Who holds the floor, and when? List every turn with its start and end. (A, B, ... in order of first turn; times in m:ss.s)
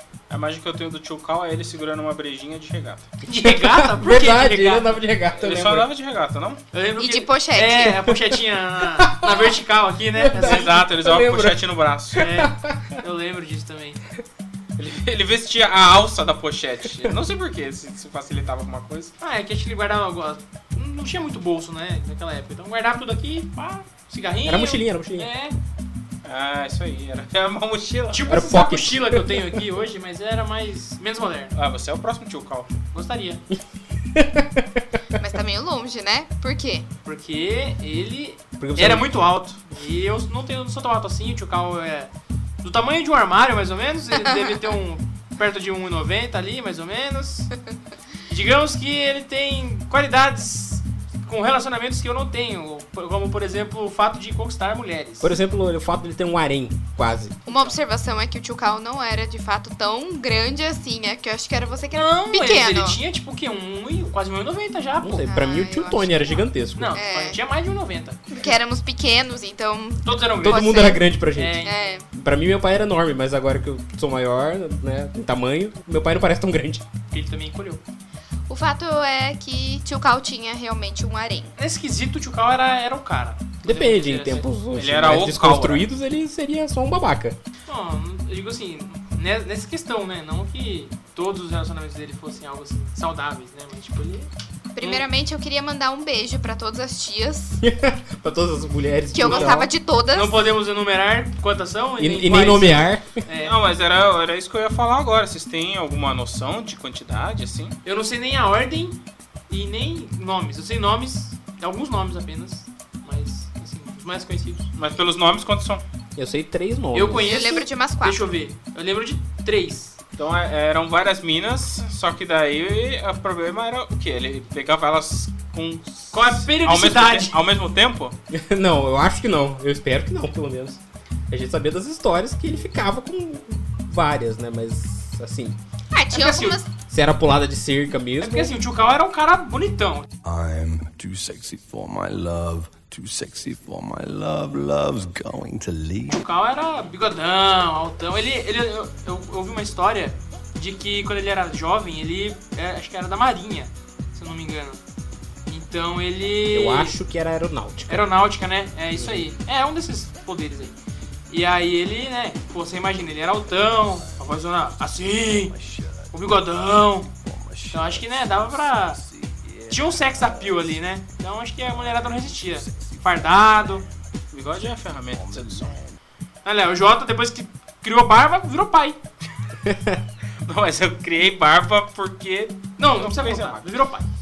0:00.3-0:03.1 A
0:03.3-0:05.0 B
0:03.3-0:05.9 C
0:05.3-0:06.6 A
0:06.7-0:10.8 B
0:07.0-0:08.1 D
0:08.8-0:09.6 C
0:10.1-0:11.6 C
0:10.3-0:12.2 A
0:12.1-0:13.0 C
0:12.2-0:14.0 B
0:14.8-0:19.1 A
0:19.2-0:25.5 B
0:24.4-0:25.3 C
0:26.2-0:28.3 A
0:28.1-0:31.5 B
0:28.3-0:29.4 C
0:31.5-0:32.7 A
0:32.9-0:33.4 B
0:34.1-0:34.8 C
0:35.2-0:36.9 D
0:37.0-0:42.1 B
0:38.6-0:39.1 C
0:42.6-0:47.5 B
0:48.3-0:55.3 B
0:55.2-0:57.4 C
0:57.4-1:03.0 D
0:57.5-0:57.8 B
1:01.9-1:05.3 B
1:05.0-1:07.0 C
1:05.3-1:07.4 D
1:06.8-1:08.2 B
1:08.3-1:11.0 D
1:10.0-1:12.0 B
1:10.4-1:16.8 C
1:11.6-1:12.0 D
1:17.1-1:17.8 B
1:18.5-1:21.5 D
1:21.6-1:24.5 B
1:23.6-1:27.4 C
1:24.7-1:25.8 A
1:27.7-1:35.0 B
1:34.8-1:37.6 D
1:37.6-1:39.7 C
1:39.1-1:40.4 D
1:39.2-1:39.6 B
1:40.1-1:43.6 B
1:42.0-1:43.2 C
1:43.4-1:47.8 A
1:47.8-1:49.0 B
1:49.5-1:54.7 B
1:54.8-1:55.8 A
1:56.2-1:57.4 C
1:56.9-2:00.0 B
1:57.2-1:58.2 D
2:00.2-2:08.1 A
2:06.1-2:07.4 B
2:08.3-2:15.6 C
2:15.9-2:16.7 D
2:16.1-2:16.6 B
2:16.9-2:18.5 C
2:18.2-2:20.1 B
2:20.2-2:26.2 E
2:26.1-2:34.8 B
2:35.5-2:37.0 B
2:36.5-2:38.1 C
2:37.9-2:40.7 B
2:39.0-2:39.2 C
2:41.3-2:45.5 B
2:43.3-2:44.3 E
2:45.1-2:46.4 E
2:46.1-2:47.1 B
2:47.2-2:56.0 E
2:47.7-2:49.0 B
2:49.7-2:53.8 B
2:54.3-2:55.8 A
2:56.4-2:59.0 B
2:59.6-3:00.0 C
3:00.4-3:03.6 A
3:02.8-3:04.1 B